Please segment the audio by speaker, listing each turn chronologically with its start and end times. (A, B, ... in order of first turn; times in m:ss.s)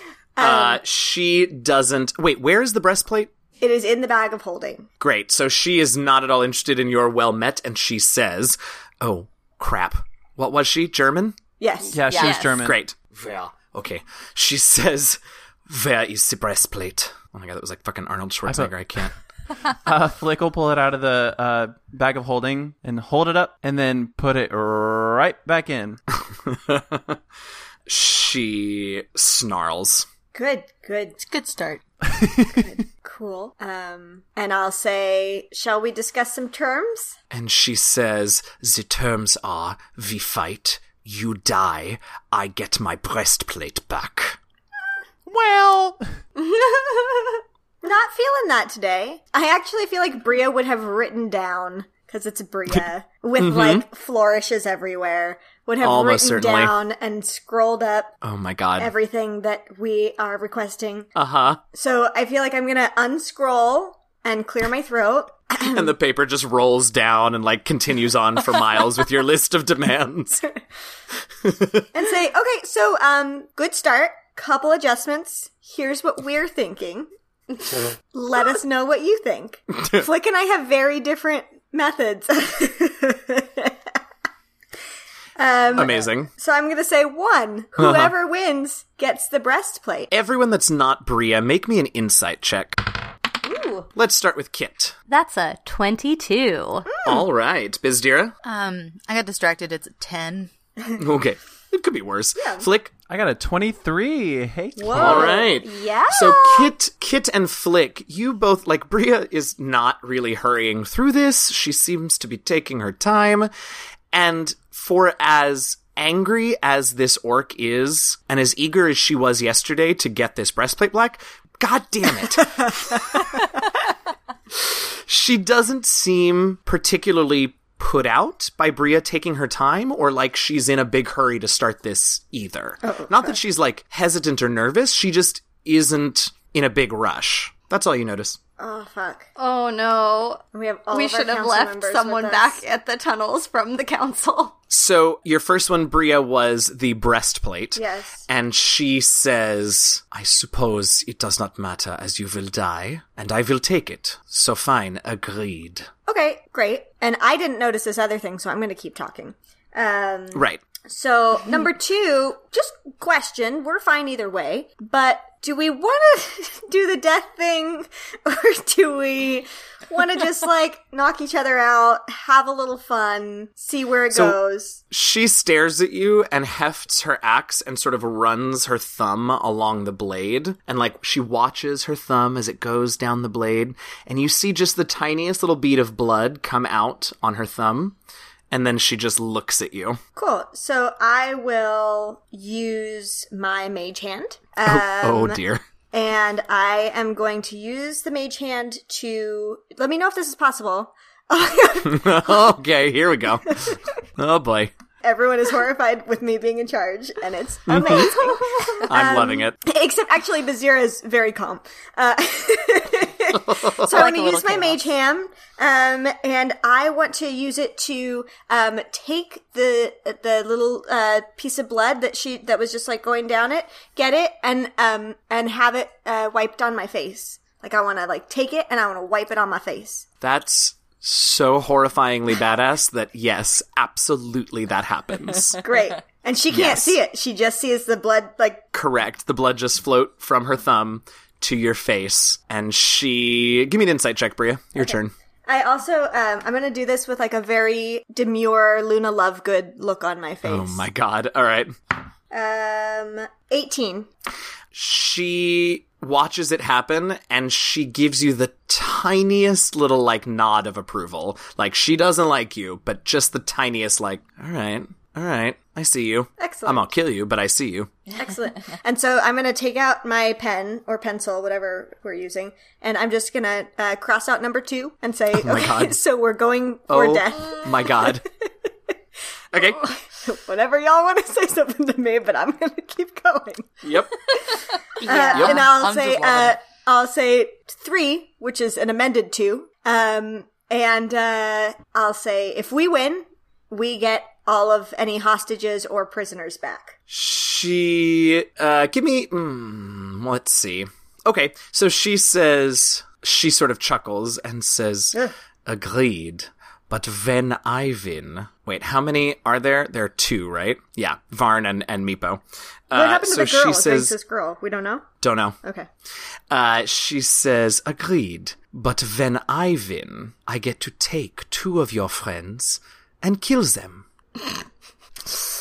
0:00.4-0:00.8 A
0:00.4-0:03.3 B
0:03.6-0:04.9 A
0:05.0-0:11.4 B
0:11.6-0:12.0 A
0:11.9-0:12.8 C
0:12.1-0:12.4 D
0:12.2-0:12.6 E
0:12.5-0:19.1 B
0:18.5-0:18.7 C
0:19.8-0:26.0 C
0:26.3-0:27.2 B
0:27.9-0:30.1 B
0:30.3-0:31.2 A
0:31.2-0:31.8 D
0:32.2-0:32.6 C
0:32.5-0:37.2 A
0:37.3-0:44.4 B
0:45.3-0:46.0 B
0:46.4-0:47.4 E
0:47.8-0:58.1 A
0:53.4-0:53.8 B
0:55.8-0:56.8 B
0:58.2-0:58.9 B
0:58.8-1:01.1 A
1:01.2-1:01.6 B
1:01.7-1:05.9 A
1:05.6-1:10.4 B
1:11.4-1:11.9 B
1:11.9-1:17.1 A
1:18.1-1:23.8 A
1:25.4-1:30.1 A
1:25.8-1:26.3 B
1:27.8-1:28.1 B
1:30.1-1:32.9 B
1:33.9-1:35.0 B
1:35.1-1:37.0 E
1:36.9-1:37.2 A
1:37.0-1:38.3 B
1:38.4-1:40.5 D
1:41.0-1:42.9 B
1:42.4-1:42.7 A
1:43.1-1:45.4 C
1:44.8-1:46.7 A
1:44.9-1:53.5 B
1:54.1-2:03.2 B
2:04.6-2:18.4 B
2:12.8-2:13.4 A
2:18.6-2:19.3 A
2:19.4-2:24.6 E
2:20.5-2:22.6 A
2:24.7-2:35.9 B
2:27.8-2:28.2 A
2:36.1-2:54.8 A
2:40.3-2:40.6 B
2:54.1-2:54.4 B
2:54.9-3:08.0 B
3:08.5-3:10.0 B
3:10.2-3:22.5 A
3:14.7-3:15.6 B
3:21.8-3:24.7 B
3:25.0-3:50.0 A
3:27.7-3:29.6 B
3:28.3-3:28.8 E
3:33.8-3:34.8 D
3:50.2-3:55.6 B
3:55.6-3:58.6 A
3:56.5-3:57.0 B
3:58.7-4:05.1 B
4:04.8-4:10.9 A
4:10.4-4:11.7 B
4:12.3-4:14.1 A
4:14.7-4:27.9 B
4:26.4-4:26.9 A
4:28.1-4:38.2 A
4:35.3-4:36.0 B
4:36.9-4:38.2 B
4:39.5-4:39.8 B
4:39.8-4:43.9 A
4:43.8-4:44.1 B
4:45.0-4:57.0 A
4:45.0-4:46.6 D
4:45.4-4:45.7 B
4:57.1-5:14.2 B
5:12.9-5:15.1 A
5:15.2-5:15.6 B
5:15.6-5:15.9 A
5:16.5-5:24.1 B